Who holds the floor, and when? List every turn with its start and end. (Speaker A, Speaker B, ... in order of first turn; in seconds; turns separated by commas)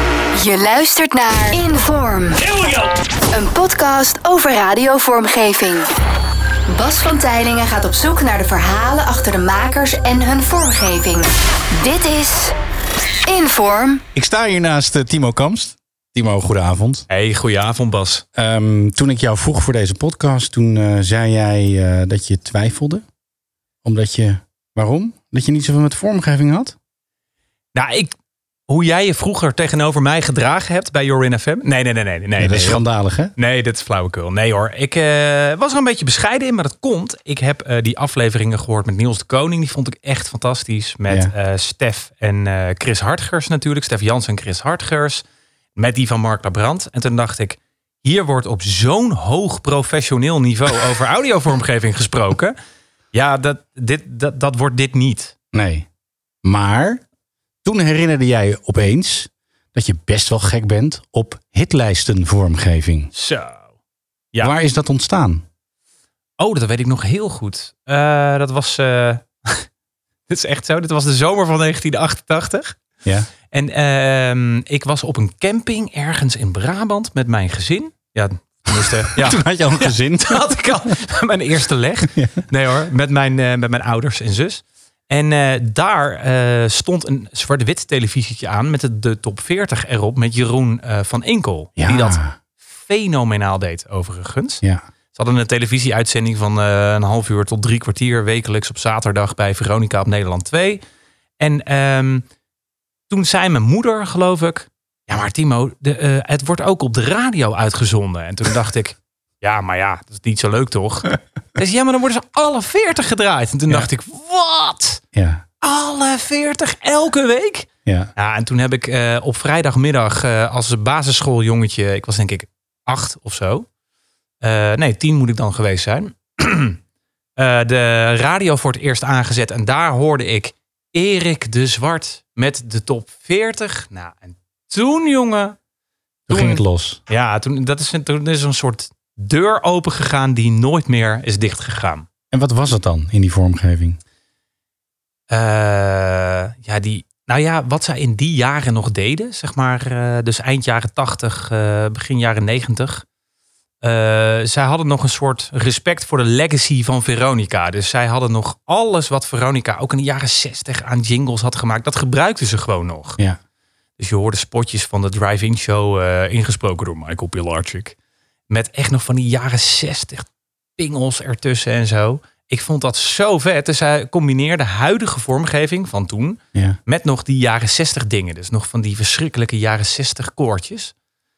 Speaker A: 0.3-2.6, Speaker A: 3.3-5.9, Speaker A: 6.7-12.5, Speaker A: 13.2-14.0, Speaker B: 14.1-17.1, Speaker C: 17.1-18.2, Speaker B: 18.3-23.0, Speaker B: 23.8-26.8, Speaker C: 27.7-28.1, Speaker C: 28.7-32.8, Speaker B: 32.4-33.3, Speaker C: 33.4-45.2, Speaker B: 41.1-41.3, Speaker C: 45.8-52.5, Speaker C: 53.1-55.3, Speaker B: 55.5-55.9, Speaker B: 56.4-57.0, Speaker B: 57.6-63.1, Speaker C: 63.1-63.7, Speaker B: 64.4-65.5, Speaker C: 66.4-69.7, Speaker C: 70.3-72.8, Speaker C: 73.5-94.6, Speaker B: 78.8-80.6, Speaker B: 82.1-82.5, Speaker B: 91.8-92.4, Speaker C: 95.1-100.8, Speaker C: 101.4-102.2, Speaker C: 103.1-115.0, Speaker B: 115.1-115.4, Speaker C: 115.6-123.7, Speaker C: 124.4-126.8, Speaker C: 127.4-135.6, Speaker B: 136.3-137.0, Speaker C: 136.3-142.1, Speaker B: 142.3-144.0, Speaker C: 145.3-153.0, Speaker C: 153.8-163.2, Speaker C: 164.0-167.9, Speaker C: 168.5-180.9